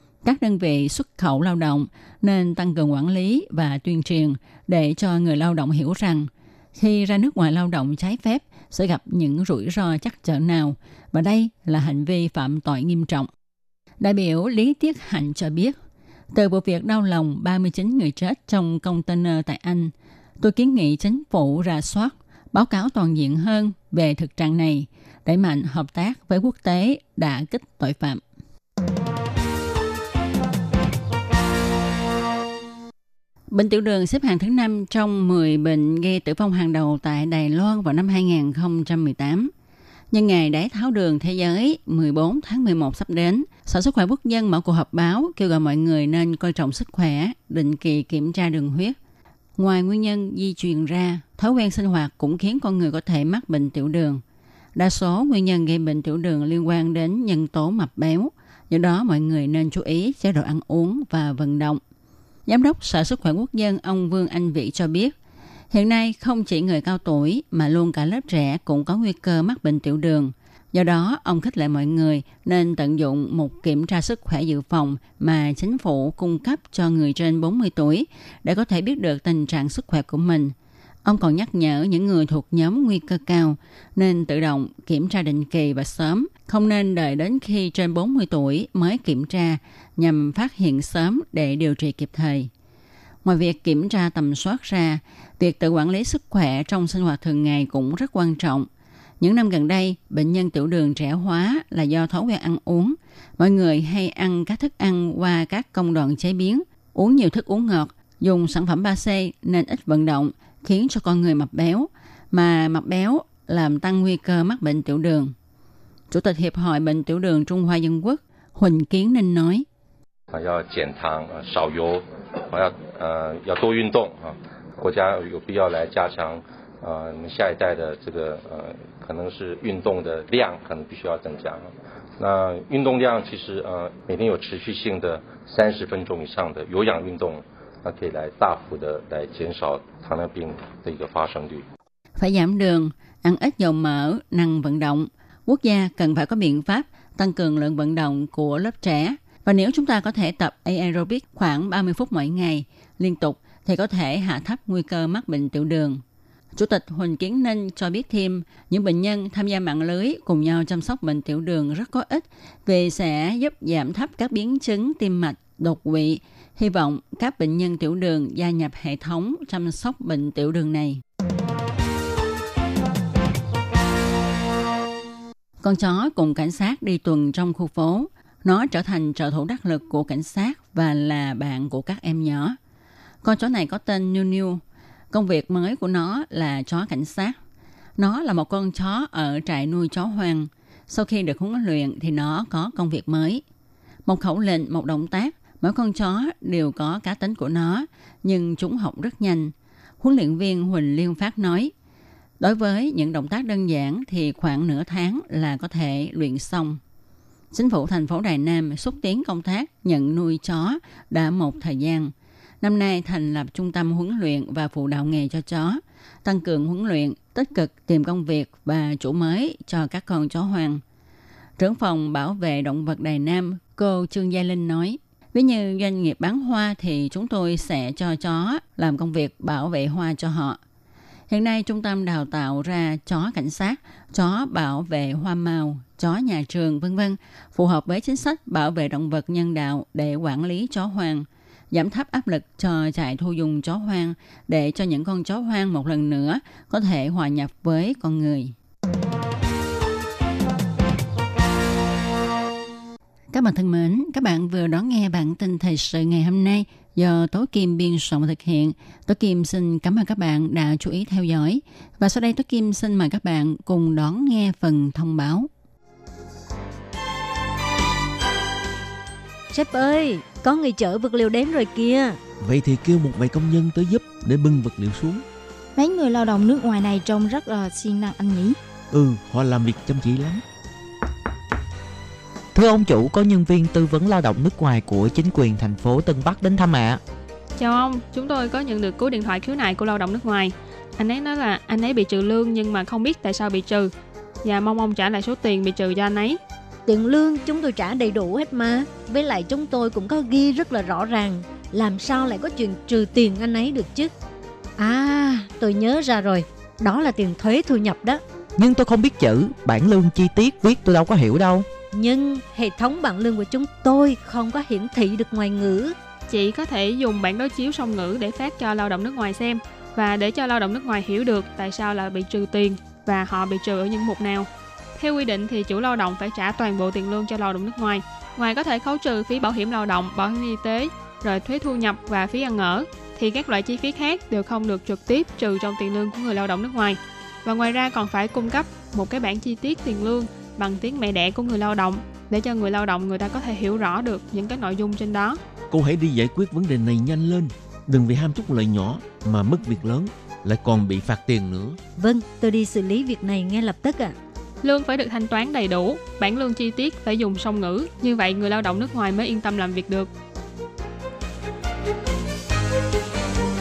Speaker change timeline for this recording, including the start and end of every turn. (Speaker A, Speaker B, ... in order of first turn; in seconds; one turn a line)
Speaker A: 0.2-13.3
Speaker A: 14.0-15.8
Speaker A: 16.3-28.2
Speaker A: 33.5-39.5
Speaker A: 40.1-49.0
Speaker A: 49.6-54.2
Speaker A: 54.8-61.8
Speaker A: 62.5-65.1
Speaker A: 65.7-92.5
Speaker A: 93.2-98.7
Speaker A: 99.2-115.3
Speaker A: 116.1-119.7
Speaker B: 120.3-141.6
Speaker A: 142.2-156.0
Speaker A: 156.5-171.0
Speaker A: 175.6-182.6
Speaker A: 183.2-187.4
Speaker A: 188.0-193.4
Speaker A: 194.1-201.7
Speaker A: 202.4-206.8
Speaker A: 207.5-220.8
Speaker A: 221.6-230.6
Speaker A: 231.3-248.5
Speaker A: 253.3-265.5
Speaker C: 269.5-272.2
Speaker D: 272.4-275.2
Speaker E: 275.8-278.6
Speaker D: 278.9-280.4
Speaker F: 282.5-287.0
Speaker G: 287.6-293.9
Speaker G: 294.4-296.4
Speaker C: 296.9-304.1
Speaker C: 304.8-308.2
Speaker F: 308.6-311.6
Speaker C: 311.9-315.9
Speaker G: 316.3-345.4
Speaker D: 345.7-351.8
Speaker C: 352.0-354.1
Speaker G: 354.6-360.1